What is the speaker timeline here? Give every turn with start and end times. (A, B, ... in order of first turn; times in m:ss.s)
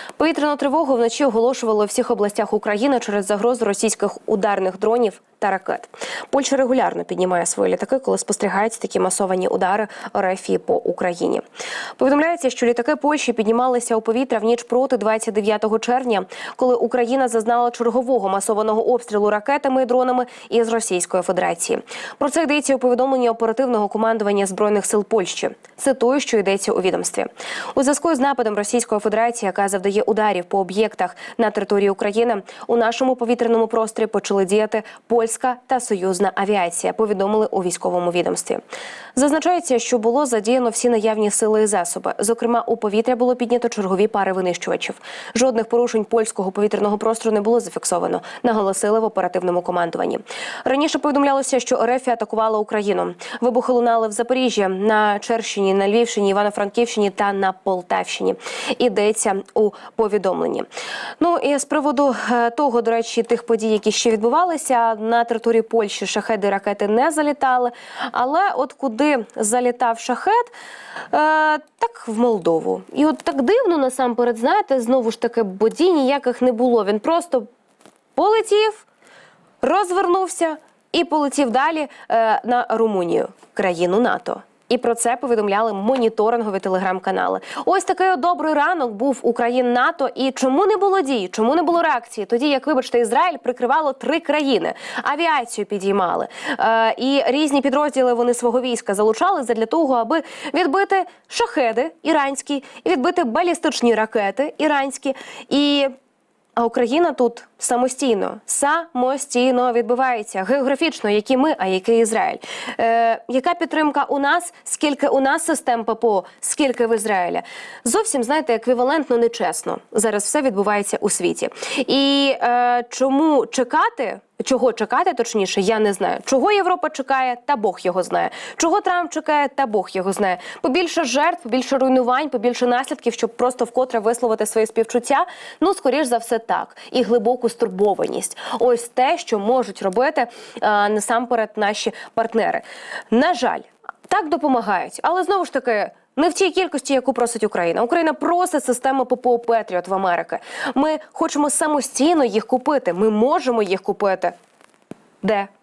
0:00.2-0:11.4 A
0:12.0-0:38.6 A
0:39.1-1:00.7 A
1:01.2-1:10.5 A
1:11.1-1:17.5 A
1:18.2-1:18.8 A
1:19.6-1:45.9 A
1:46.6-2:34.3 A
2:35.2-2:35.5 A